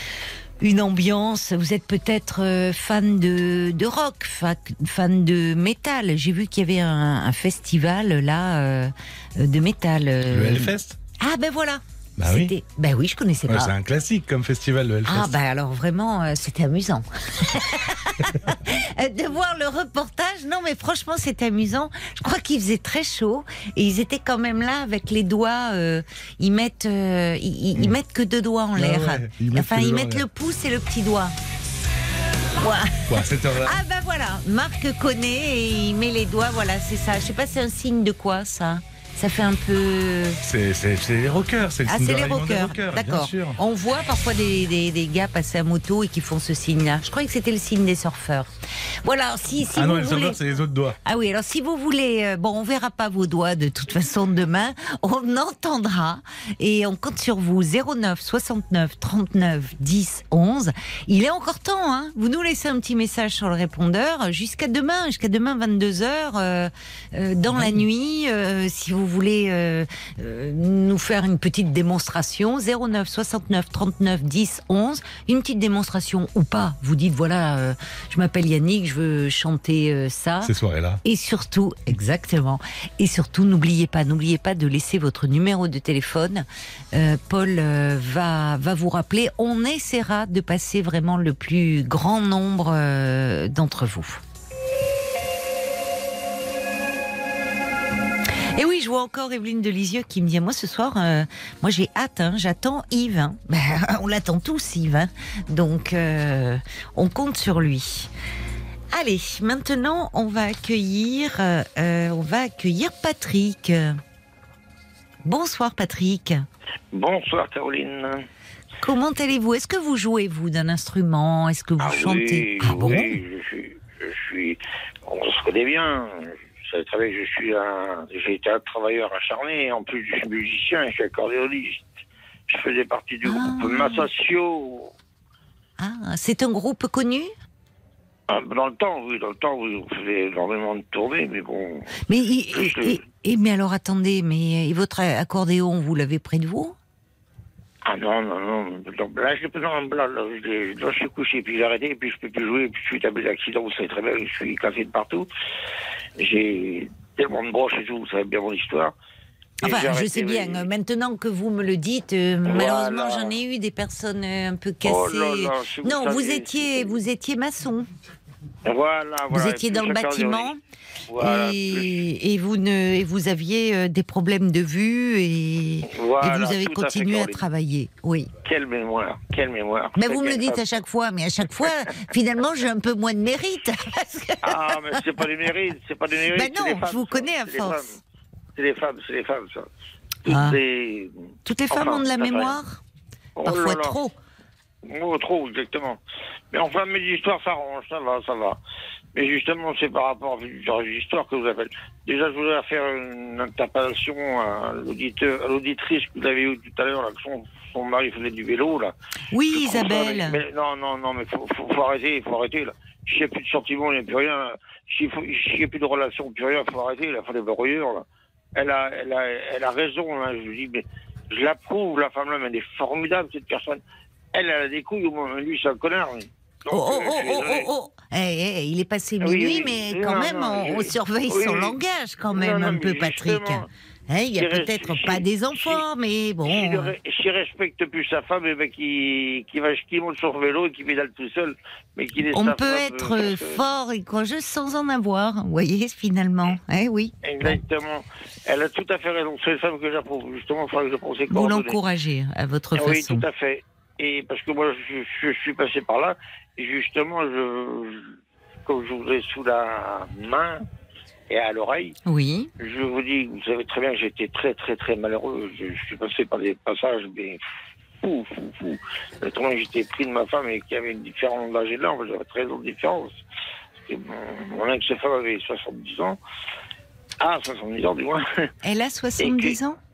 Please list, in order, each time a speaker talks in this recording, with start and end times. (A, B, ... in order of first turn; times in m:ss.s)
0:00.6-0:13.7 A
0:10.3-0:11.0 B
0:12.2-0:12.5 B
0:13.5-0:15.3 B
0:15.0-0:31.3 A
0:28.8-0:30.2 B
0:32.5-0:40.4 A
0:33.1-0:33.8 B
0:40.4-0:43.6 B
0:41.8-0:50.4 A
0:49.7-0:51.0 B
0:51.0-1:20.5 A
1:07.5-1:07.8 B
1:20.4-1:21.0 B
1:21.0-1:34.2 A
1:38.3-1:48.1 A
1:48.9-1:54.0 A
1:55.2-1:56.4 A
1:56.9-1:58.3 C
1:58.8-2:03.2 A
2:01.8-2:11.8 C
2:12.5-2:14.9 C
2:13.2-2:14.1 A
2:15.8-2:17.3 A
2:18.3-2:22.0 C
2:22.0-2:26.8 A
2:22.5-2:23.0 C
2:27.8-2:35.3 C
2:36.2-2:38.9 C
2:39.6-2:40.7 C
2:39.6-2:47.9 A
2:42.4-2:43.4 C
2:44.8-2:46.9 C
2:48.6-2:50.5 C
2:49.3-2:50.6 A
2:51.1-2:52.0 C
2:51.2-2:58.3 A
2:55.8-2:57.5 C
2:58.4-3:00.8 C
3:00.0-3:05.1 A
3:01.6-3:02.0 C
3:04.4-3:08.0 C
3:06.3-3:07.8 A
3:08.5-3:09.7 C
3:10.2-3:10.6 A
3:10.2-3:12.6 C
3:11.4-3:12.8 A
3:13.4-3:14.0 C
3:13.4-3:14.1 A
3:14.8-3:16.0 C
3:16.5-3:18.6 C
3:19.1-3:28.9 C
3:29.3-3:30.4 A
3:29.5-3:43.8 C
3:44.3-3:47.7 C
3:46.7-3:56.9 A
3:49.2-3:51.8 C
3:52.3-3:53.7 C
3:54.3-3:55.8 C
3:56.4-4:03.6 C
4:02.3-4:07.6 A
4:07.2-4:11.8 C
4:11.3-4:13.3 A
4:12.7-4:20.6 C
4:21.3-4:22.0 C
4:22.0-4:22.5 A
4:22.6-4:27.4 C
4:28.0-4:33.2 C
4:33.8-4:36.2 C
4:37.2-4:38.5 C
4:38.6-4:39.8 A
4:39.2-4:39.6 C